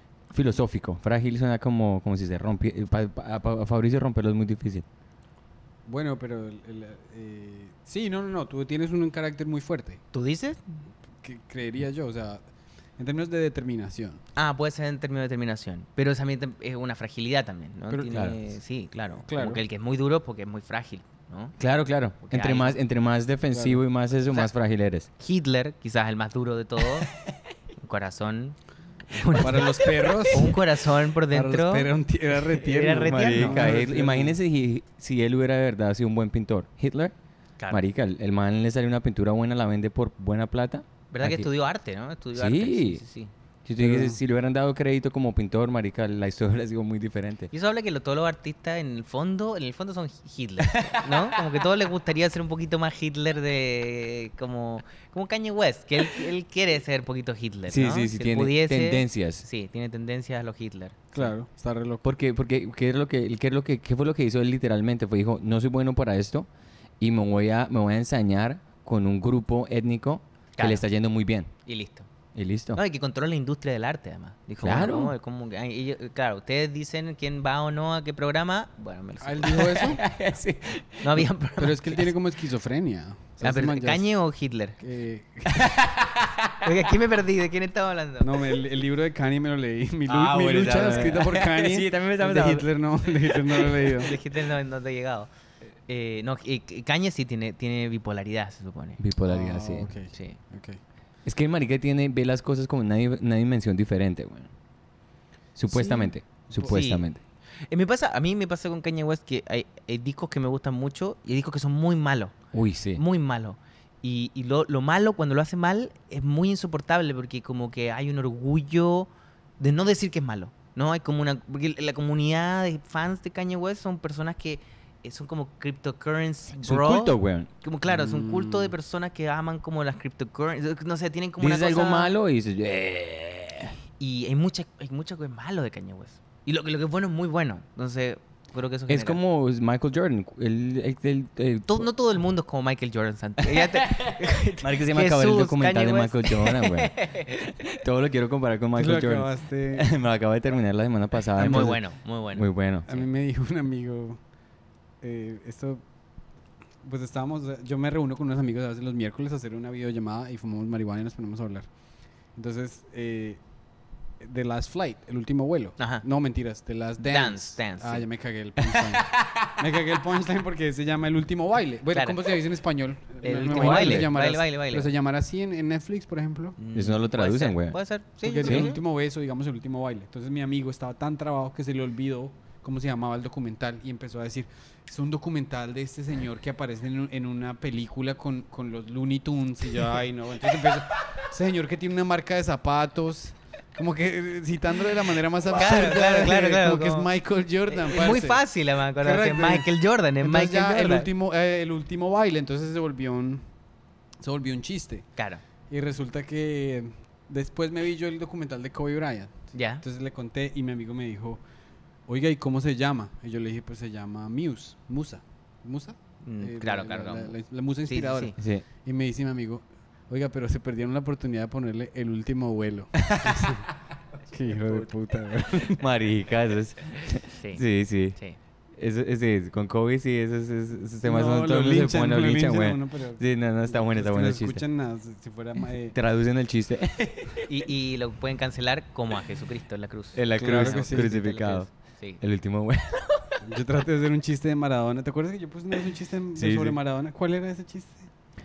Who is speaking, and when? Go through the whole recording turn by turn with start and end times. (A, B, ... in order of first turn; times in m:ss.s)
0:00.3-0:04.8 A
0:05.8-0:10.0 B
0:10.1-0:10.6 C
0:11.2-0:12.4 B
0:13.0-0:14.2 B
0:14.4-0:21.6 C
0:17.9-0:18.3 B
0:18.1-0:18.4 A
0:19.2-0:19.6 B
0:21.6-0:25.1 A
0:22.2-0:22.8 C
0:23.5-0:23.8 B
0:25.2-0:27.1 C
0:27.8-0:31.9 C
0:29.3-0:30.6 B
0:31.3-0:34.4 B
0:32.5-0:33.7 C
0:33.0-0:37.1 A
0:37.7-0:41.5 A
0:41.1-0:43.3 C
0:42.3-0:43.0 A
0:43.6-0:47.5 A
0:43.8-0:44.2 B
0:47.5-1:01.3 C
0:50.6-0:51.4 A
0:57.7-0:59.4 A
1:01.1-1:02.0 B
1:02.0-1:06.5 A
1:07.0-1:11.5 A
1:10.6-1:10.8 C
1:11.6-1:12.1 C
1:12.3-1:12.8 A
1:12.7-1:20.0 C
1:14.6-1:15.1 A
1:19.2-1:20.0 B
1:19.5-1:21.2 A
1:21.0-1:22.1 C
1:21.6-1:24.1 B
1:23.4-1:24.8 C
1:24.8-1:25.7 B
1:25.5-1:26.9 A
1:26.6-1:28.3 C
1:28.2-1:34.1 B
1:30.1-1:34.0 A
1:33.9-1:35.3 C
1:35.9-1:39.0 C
1:39.0-1:39.9 A
1:39.2-1:40.8 B
1:40.1-1:40.4 C
1:41.2-1:44.5 A
1:45.6-1:47.2 A
1:45.7-1:46.7 B
1:46.6-1:47.1 C
1:47.7-1:52.4 C
1:52.5-1:53.0 A
1:52.9-2:12.1 C
2:06.6-2:07.5 A
2:07.8-2:08.7 B
2:11.4-2:13.8 A
2:14.0-2:19.2 C
2:18.9-2:21.9 A
2:21.7-2:27.4 C
2:23.5-2:32.9 A
2:28.7-2:29.9 B
2:31.4-2:33.0 C
2:31.4-2:31.8 B
2:32.8-2:34.2 B
2:35.0-2:35.8 B
2:36.8-2:41.7 B
2:42.3-2:43.4 B
2:44.2-2:56.6 B
2:45.8-2:46.0 C
2:47.0-2:48.0 C
2:51.9-2:52.2 C
2:53.2-2:54.9 C
2:53.4-2:54.1 A
2:56.6-2:58.8 C
2:56.7-2:57.8 A
2:58.2-3:19.7 B
2:58.4-2:58.7 A
3:15.5-3:17.1 C
3:17.7-3:21.1 C
3:20.2-3:23.4 B
3:24.2-3:25.1 B
3:25.2-3:25.4 C
3:25.7-3:31.4 B
3:29.5-3:29.8 C
3:32.1-3:43.7 B
3:36.2-3:37.4 C
3:37.9-3:38.3 C
3:38.4-3:38.6 A
3:43.0-3:43.6 A
3:44.3-3:45.8 B
3:45.5-3:48.2 A
3:47.4-3:47.6 C
3:48.7-3:54.6 A
3:51.0-3:56.0 B
3:55.9-3:57.5 A
3:57.5-4:02.2 C
4:00.1-4:01.7 A
4:00.4-4:01.1 B
4:02.2-4:03.4 A
4:03.4-4:08.1 B
4:06.3-4:06.8 A